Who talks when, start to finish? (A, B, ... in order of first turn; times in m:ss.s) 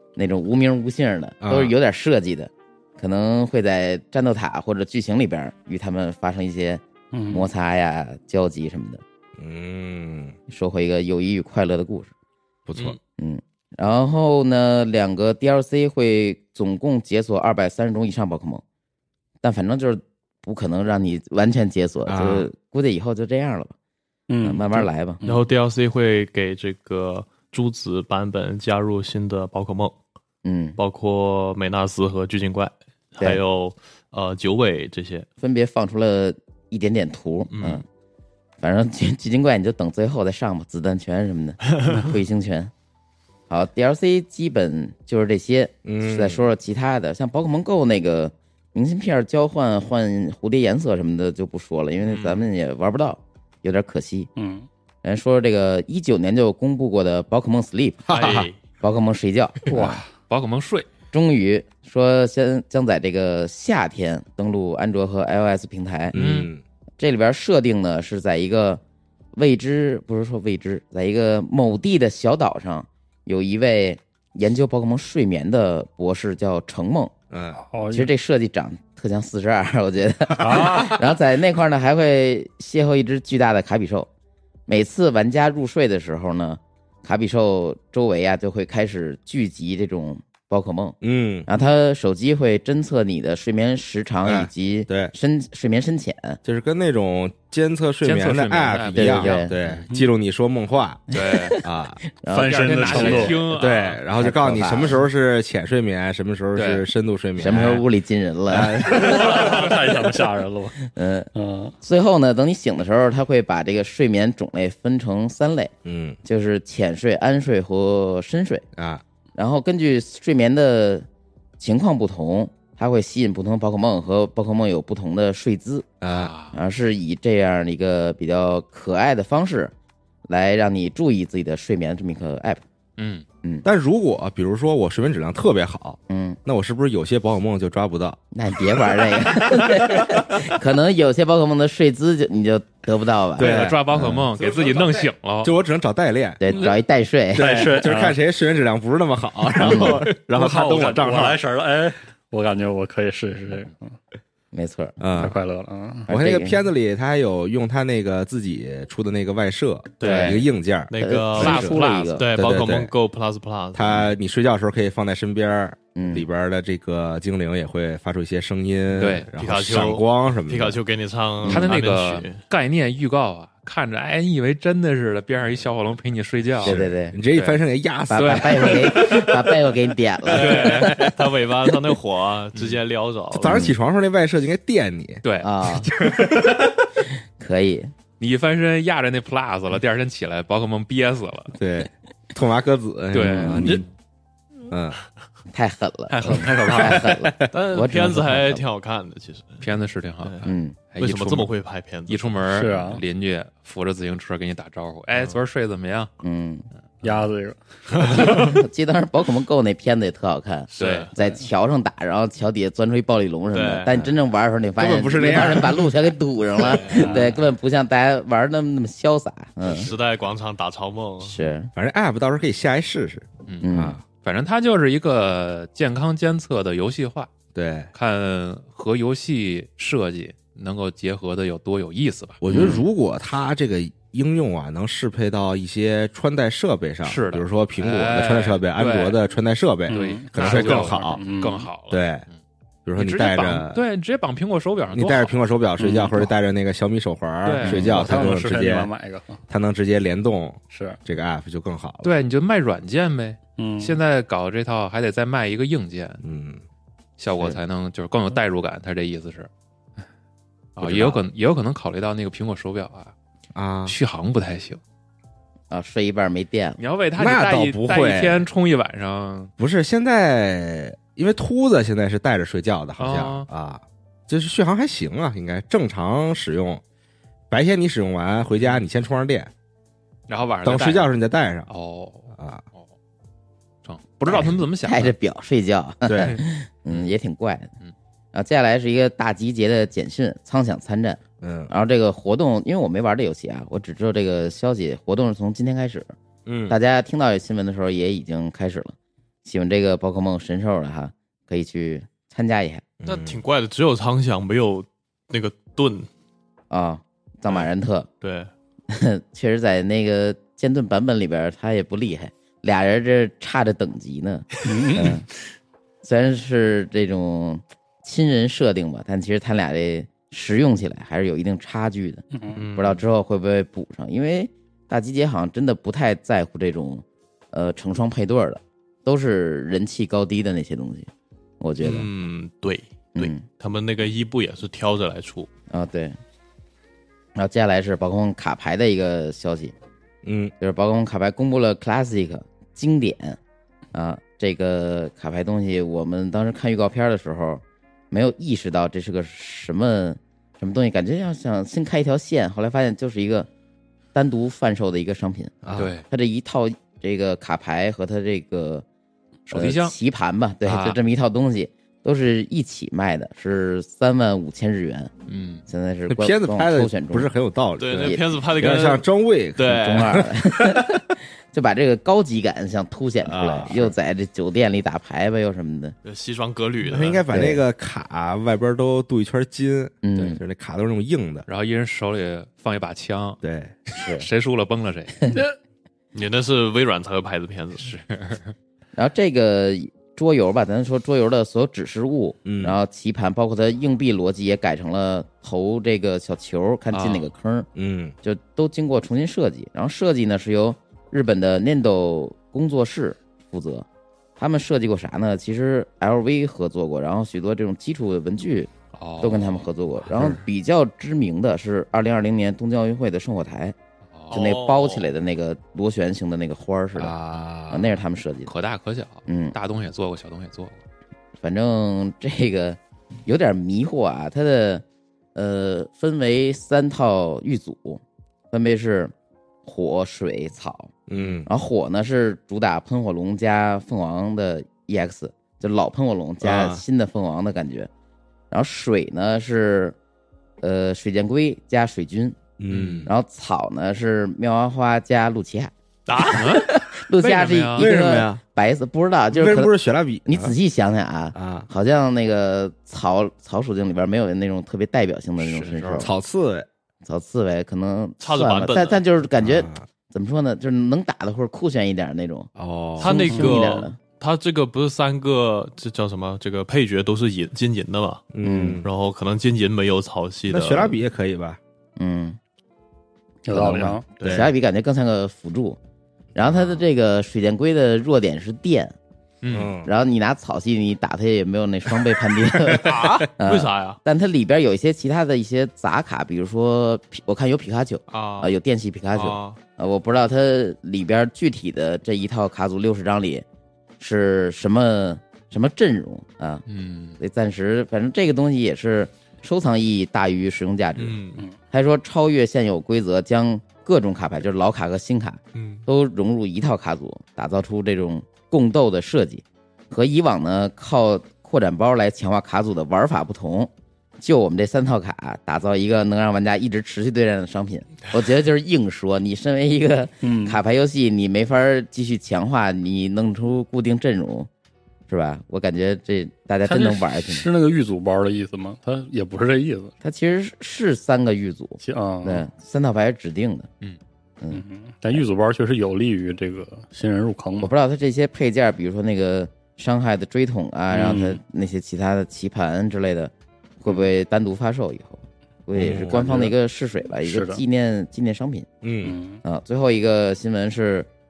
0:00.2-0:09.0 A
0:01.4-0:01.7 B
0:07.1-0:07.5 C
0:09.4-0:10.4 B
0:10.5-0:12.1 A
0:12.7-0:13.0 B
0:13.2-0:18.6 A
0:19.4-0:23.7 A
0:22.0-0:22.5 B
0:24.3-0:25.5 C
0:24.4-0:25.2 A
0:25.3-0:30.0 D
0:30.4-0:30.8 A
0:30.8-0:35.3 D
0:35.4-0:37.8 A
0:37.5-0:37.8 D
0:38.6-0:42.7 A
0:41.6-0:42.0 D
0:43.5-0:54.3 A
0:45.8-0:46.5 B
0:52.0-0:52.4 E
0:54.4-0:54.7 C
0:55.0-0:58.1 A
0:58.1-0:58.5 B
0:58.1-0:58.6 D
0:58.8-0:59.7 A
0:59.7-1:00.1 C
1:00.3-1:00.9 E
1:01.1-1:06.2 A
1:06.1-1:06.6 B
1:06.1-1:06.5 E
1:07.0-1:08.8 A
1:09.4-1:17.1 A
1:17.3-1:17.6 B
1:17.6-1:18.1 C
1:17.9-1:24.1 A
1:20.4-1:21.0 C
1:24.7-1:36.4 A
1:31.0-1:31.5 B
1:34.2-1:35.1 B
1:36.4-1:41.0 B
1:38.0-1:39.8 E
1:38.9-1:39.5 A
1:41.1-1:41.6 E
1:41.1-1:43.3 A
1:41.6-1:42.0 B
1:42.3-1:43.4 C
1:42.6-1:44.0 E
1:42.8-1:47.8 B
1:44.2-1:45.0 A
1:46.6-1:46.9 E
1:47.4-1:49.4 A
1:47.5-1:47.8 C
1:48.5-1:49.7 B
1:48.7-1:50.8 C
1:50.8-1:51.3 A
1:51.3-1:51.8 C
1:51.8-1:58.7 A
1:55.8-1:56.2 B
1:58.8-1:59.0 B
1:59.4-2:01.1 A
2:01.6-2:05.9 A
2:06.0-2:06.3 B
2:06.1-2:06.6 E
2:06.5-2:09.7 A
2:10.3-2:12.6 A
2:13.0-2:13.3 E
2:13.6-2:20.4 B
2:16.1-2:16.4 A
2:18.3-2:24.2 A
2:23.4-2:26.7 B
2:23.4-2:25.6 E
2:26.4-2:27.8 A
2:27.3-2:31.4 B
2:27.4-2:28.2 C
2:29.6-2:30.1 A
2:30.3-2:34.0 C
2:34.5-2:35.0 A
2:35.0-2:35.4 B
2:35.2-2:36.1 C
2:36.1-2:36.6 A
2:36.1-2:41.8 B
2:40.0-2:44.0 D
2:40.0-2:40.4 A
2:41.0-2:42.3 A
2:42.3-2:42.9 B
2:43.7-2:50.8 B
2:46.0-2:46.2 A
2:49.0-2:49.3 E
2:49.4-2:52.4 D
2:51.4-2:51.7 A
2:51.5-2:56.8 E
2:56.6-2:57.2 A
2:56.6-2:59.2 B
2:57.3-2:57.6 E
2:58.1-3:01.1 A
2:58.1-2:59.4 E
3:00.3-3:03.7 D
3:00.3-3:01.0 E
3:02.6-3:02.8 E
3:03.3-3:06.8 B
3:03.4-3:03.8 A
3:05.2-3:05.5 E
3:05.4-3:05.9 A
3:07.4-3:07.9 A
3:08.2-3:11.6 E
3:11.6-3:13.9 B
3:13.1-3:13.9 E
3:13.2-3:13.8 A
3:14.7-3:15.0 B
3:15.5-3:18.6 A
3:16.1-3:17.2 C
3:17.5-3:19.7 D
3:19.6-3:21.5 E
3:20.2-3:22.5 D
3:20.4-3:20.8 A
3:22.1-3:26.1 E
3:22.5-3:23.0 C
3:26.2-3:26.7 A
3:27.0-3:27.6 C
3:28.0-3:28.6 D
3:28.1-3:39.9 A
3:30.8-3:31.1 E
3:30.8-3:31.1 D
3:33.5-3:34.0 D
3:34.8-3:35.9 B
3:36.6-3:37.2 E
3:37.0-3:37.4 C
3:39.7-3:41.4 D
3:41.2-3:41.7 A
3:41.8-3:44.0 B
3:43.6-3:44.0 A
3:44.2-3:47.3 E
3:47.6-3:47.9 B
3:47.9-3:52.4 E
3:52.4-4:01.2 B
3:52.5-3:52.8 A
3:57.0-3:59.2 E
3:59.9-4:01.7 C
3:59.9-4:02.4 E
4:01.9-4:02.2 B
4:02.9-4:03.8 B
4:03.0-4:05.4 E
4:04.9-4:08.9 B
4:05.8-4:06.3 C
4:07.4-4:08.4 E
4:07.6-4:09.4 C
4:09.5-4:12.1 B
4:10.7-4:11.0 C
4:12.0-4:16.2 E
4:13.6-4:14.0 C
4:16.2-4:16.6 B
4:17.2-4:19.5 E
4:20.8-4:23.1 E
4:20.8-4:21.2 B
4:23.6-4:24.0 B
4:23.9-4:24.8 E
4:25.7-4:26.8 A
4:26.8-4:29.5 E
4:27.2-4:28.5 B
4:29.6-4:36.8 B
4:33.0-4:33.5 E
4:37.5-4:39.5 B
4:38.6-4:38.8 E
4:40.3-4:41.1 E
4:40.6-4:41.7 B
4:41.7-4:42.9 E
4:42.4-4:42.6 B
4:43.8-4:45.1 E
4:44.3-4:47.7 A
4:46.0-4:46.4 B
4:46.2-4:47.1 E
4:48.3-4:56.1 A
4:51.4-4:51.7 B
4:56.5-4:56.8 B
4:56.7-5:02.9 A
5:03.0-5:03.4 B
5:03.0-5:06.1 D
5:06.7-5:08.1 A
5:08.2-5:08.5 D
5:08.9-5:15.2 A
5:14.7-5:15.2 C
5:16.0-5:32.1 A
5:22.3-5:22.6 C
5:22.6-5:22.9 D
5:31.8-5:35.5 D
5:33.2-5:33.5 A
5:35.7-5:36.2 A
5:37.4-5:39.8 A
5:40.2-5:40.5 B
5:40.6-5:43.4 A
5:43.9-5:53.5 A
5:54.1-5:55.6 A
5:55.6-5:55.9 B
5:55.7-5:56.1 E
5:56.1-5:58.8 A
5:59.5-6:00.0 E
5:59.5-6:05.1 A
6:00.6-6:01.0 E
6:05.3-6:05.6 E
6:05.7-6:07.3 A
6:06.1-6:11.0 B
6:07.8-6:09.0 D
6:08.0-6:08.3 A
6:09.6-6:10.1 D
6:09.6-6:16.0 A
6:13.2-6:14.0 B
6:16.0-6:17.3 D
6:16.8-6:21.5 B
6:17.3-6:17.6 A
6:20.0-6:20.4 A
6:21.5-6:23.4 E
6:23.4-6:23.7 B
6:24.0-6:24.3 A
6:24.0-6:25.4 E
6:26.1-6:27.9 D
6:27.8-6:28.5 E
6:29.0-6:37.7 A
6:32.4-6:32.8 B
6:36.9-6:37.3 E
6:37.8-6:38.1 B
6:38.2-6:43.9 A
6:44.4-6:48.7 A
6:48.9-6:49.7 E
6:49.2-6:53.8 A
6:54.1-6:54.5 E
6:54.3-6:55.1 D
6:54.3-6:57.1 A
6:57.0-7:00.8 E
6:57.7-6:58.5 A
6:59.3-6:59.6 A
7:01.4-7:04.8 A
7:05.4-7:09.1 A
7:09.6-7:10.9 A
7:11.1-7:11.5 B
7:11.5-7:17.9 A
7:16.4-7:16.8 B
7:18.5-7:20.0 A
7:20.6-7:22.4 A
7:22.6-7:23.1 B
7:22.7-7:23.1 E
7:23.1-7:25.7 A
7:26.1-7:26.4 D
7:26.1-7:27.9 E
7:26.3-7:29.7 A
7:27.8-7:28.4 B
7:29.3-7:30.5 B
7:30.3-7:36.1 A
7:31.4-7:31.7 B
7:35.4-7:36.1 E
7:36.0-7:36.7 B
7:37.0-7:44.0 A
7:38.2-7:39.0 D
7:39.4-7:39.8 B
7:42.6-7:43.2 B
7:43.0-7:48.3 D
7:43.3-7:43.7 C
7:48.3-7:48.9 B
7:48.4-7:48.8 A
7:48.8-7:51.0 D
7:50.5-7:51.6 B
7:52.0-7:52.4 A
7:53.4-7:54.2 C
7:53.5-7:55.8 A
7:54.2-7:54.5 B
7:56.4-7:59.0 A
7:59.4-7:59.7 E
7:59.5-7:59.9 B
7:59.8-8:13.4 A
8:02.8-8:04.0 D
8:08.1-8:08.6 D
8:09.2-8:09.6 D
8:14.0-8:16.6 A
8:16.7-8:17.2 E
8:17.2-8:21.2 A
8:21.0-8:21.4 D
8:21.7-8:44.5 A
8:25.5-8:25.8 D
8:40.2-8:40.6 C
8:45.1-8:47.5 A
8:46.6-8:49.9 C
8:50.0-8:53.7 A
8:51.8-8:52.4 C
8:54.5-8:57.7 C
8:57.6-9:08.7 A
9:00.9-9:01.4 C
9:05.7-9:06.2 B
9:06.1-9:06.5 C
9:07.3-9:07.6 C
9:08.8-9:09.2 B
9:09.0-9:09.4 C
9:09.4-9:11.1 A